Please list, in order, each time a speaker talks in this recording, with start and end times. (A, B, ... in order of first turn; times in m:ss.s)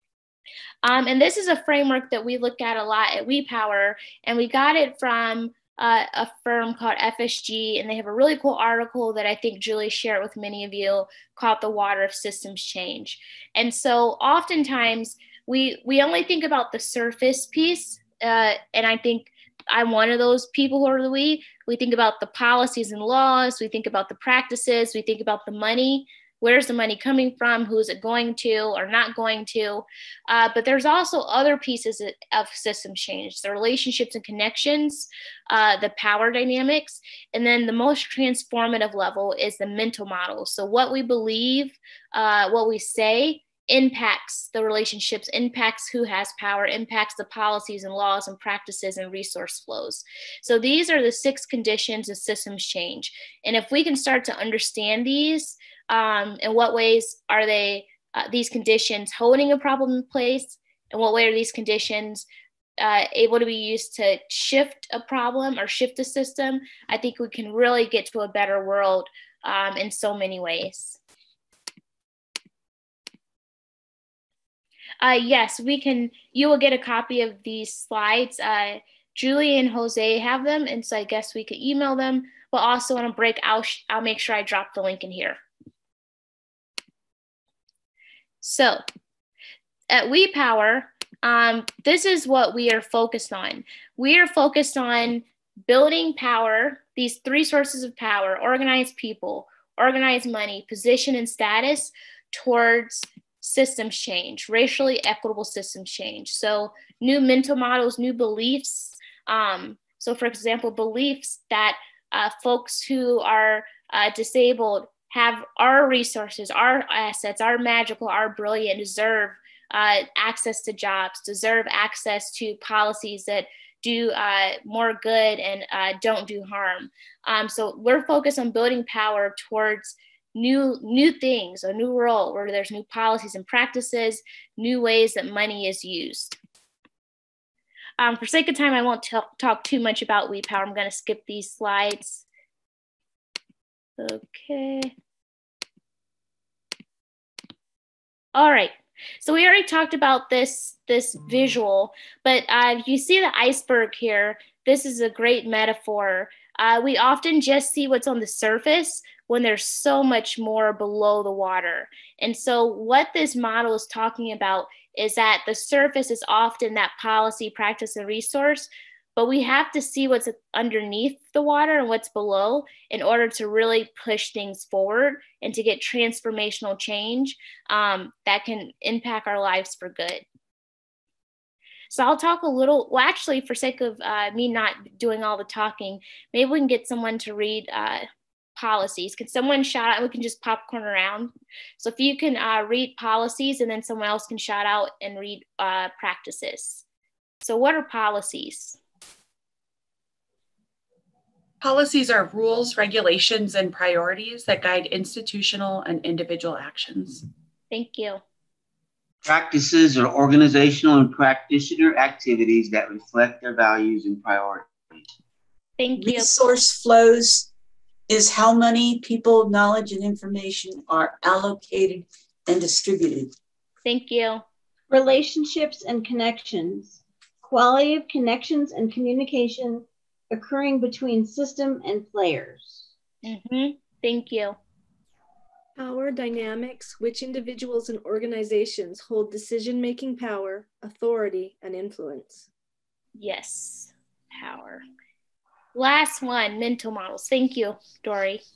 0:00.8-1:02.2 A
1:02.8-1:11.0 A
1:15.0-1:25.4 A
1:28.4-1:28.8 A
1:29.9-2:16.3 A
2:18.0-2:22.2 A
2:24.0-2:24.9 A
2:28.3-3:00.2 A
3:01.9-3:08.0 A
3:08.6-3:16.8 A
3:17.4-3:18.8 A
3:21.6-3:27.2 B
3:27.7-3:28.2 A
3:29.2-3:35.0 C
3:35.8-3:36.4 A
3:36.0-3:37.5 D
3:38.1-3:43.3 D
3:43.8-3:44.4 A
3:44.9-3:52.9 E
3:53.2-3:54.6 A
3:55.8-4:02.5 F
4:03.2-4:04.8 A
4:05.7-4:08.4 A